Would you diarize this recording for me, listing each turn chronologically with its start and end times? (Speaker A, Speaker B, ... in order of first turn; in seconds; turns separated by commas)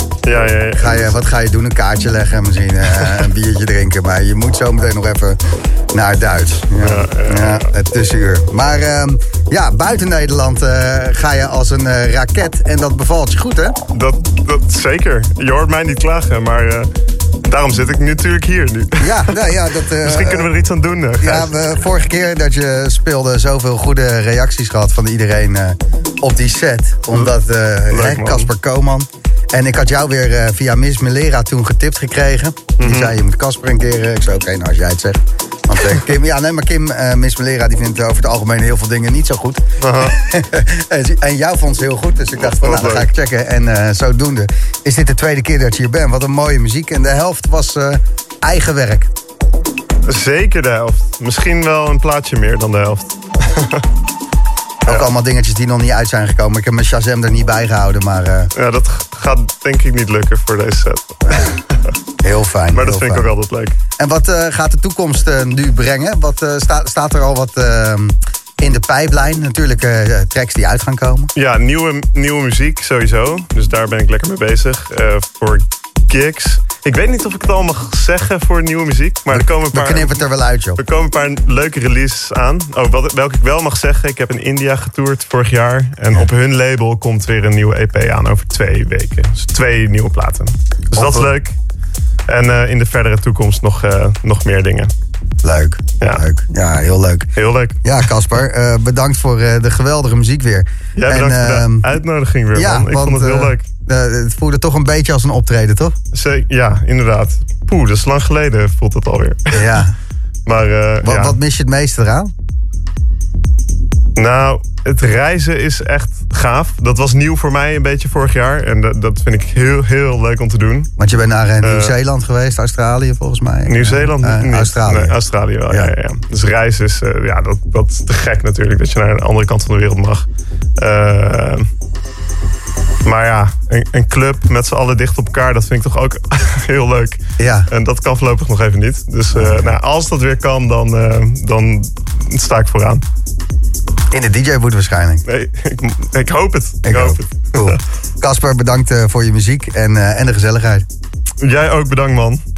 Speaker A: 0.2-1.1, Speaker B: 0.8-5.4, Speaker B: 5.9-13.8, Speaker A: 6.8-7.7, Speaker A: 13.9-16.9, Speaker A: 17.4-19.4, Speaker B: 19.0-20.5, Speaker A: 19.9-21.5, Speaker B: 21.2-49.1, Speaker A: 27.9-28.5, Speaker A: 32.8-33.1, Speaker A: 39.8-40.2, Speaker A: 42.5-43.1, Speaker A: 50.0-53.9, Speaker B: 54.9-58.5, Speaker A: 58.5-62.0, Speaker B: 62.2-63.3, Speaker A: 62.7-63.8, Speaker B: 64.0-71.3, Speaker A: 71.4-80.2, Speaker B: 79.3-80.8, Speaker A: 80.8-91.6, Speaker B: 91.0-91.3, Speaker A: 92.3-94.9, Speaker B: 95.4-101.9, Speaker A: 97.4-97.8, Speaker A: 101.0-103.7, Speaker B: 102.5-106.0, Speaker A: 106.1-109.8, Speaker B: 109.5-110.0, Speaker A: 110.5-111.4, Speaker B: 111.0-112.3, Speaker A: 114.2-120.9, Speaker B: 121.0-125.2, Speaker A: 121.6-121.9, Speaker A: 123.7-131.7, Speaker A: 133.1-143.0, Speaker B: 137.4-137.7, Speaker B: 139.4-139.7, Speaker B: 144.1-145.2, Speaker A: 145.3-147.7, Speaker B: 146.8-150.9, Speaker A: 151.4-152.4